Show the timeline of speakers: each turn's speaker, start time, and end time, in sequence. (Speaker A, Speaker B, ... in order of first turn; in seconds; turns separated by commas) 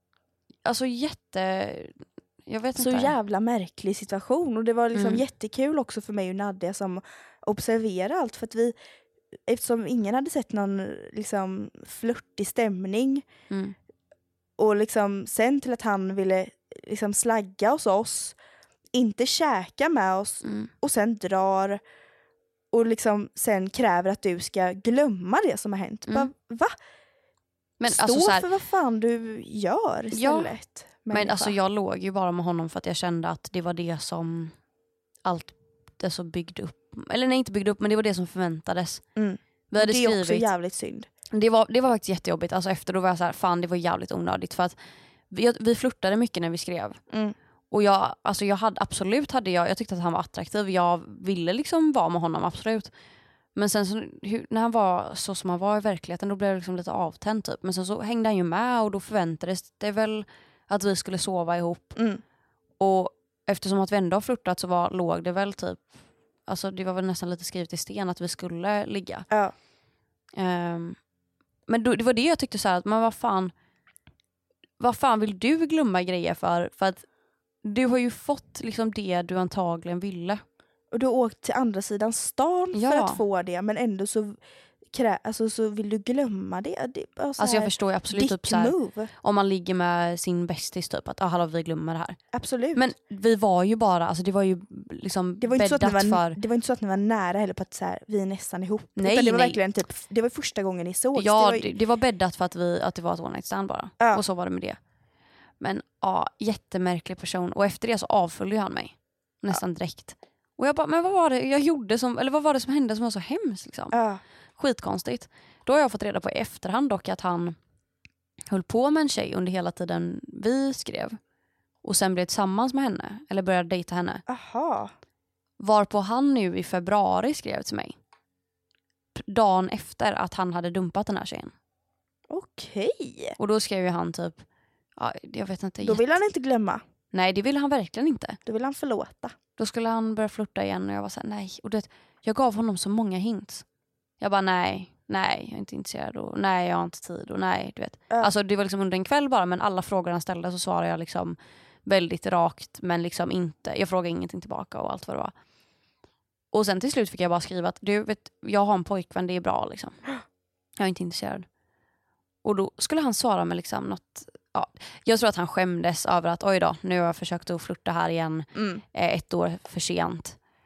Speaker A: 0.7-3.1, Speaker B: 2.8-8.8, Speaker A: 4.9-5.2, Speaker B: 9.5-13.2, Speaker A: 13.5-13.8, Speaker B: 14.6-18.4, Speaker B: 18.9-21.8, Speaker A: 20.4-20.7, Speaker B: 22.7-26.7, Speaker A: 27.8-28.5, Speaker B: 27.8-31.6, Speaker A: 30.1-30.5, Speaker A: 31.1-34.5, Speaker A: 35.2-39.0, Speaker B: 39.2-41.1, Speaker A: 39.7-40.5, Speaker A: 41.3-44.8, Speaker A: 45.3-47.0, Speaker B: 47.1-47.4, Speaker A: 47.7-52.9, Speaker A: 53.5-62.0, Speaker B: 62.0-62.2, Speaker A: 62.8-65.8, Speaker A: 66.5-69.3, Speaker A: 70.4-71.0, Speaker A: 71.7-73.5, Speaker A: 74.8-77.1, Speaker A: 77.6-80.4, Speaker B: 80.9-84.4, Speaker A: 82.7-83.2, Speaker B: 84.9-89.1, Speaker A: 87.4-92.2, Speaker B: 92.3-92.9, Speaker A: 92.8-96.4, Speaker B: 95.4-101.7, Speaker A: 99.0-99.6, Speaker A: 101.2-104.8, Speaker A: 105.6-114.0, Speaker B: 113.9-114.2, Speaker A: 114.6-117.6, Speaker A: 118.5-121.2, Speaker A: 121.8-124.2, Speaker B: 124.3-124.9, Speaker A: 125.6-128.0, Speaker A: 129.2-131.5, Speaker B: 132.3-133.4, Speaker A: 133.4-134.4, Speaker A: 135.0-136.2, Speaker B: 135.8-136.8, Speaker A: 137.1-138.4, Speaker B: 138.5-139.3, Speaker A: 139.6-143.7, Speaker A: 144.2-155.3, Speaker A: 156.5-160.0, Speaker A: 160.8-161.5, Speaker A: 162.4-170.4, Speaker B: 168.6-168.8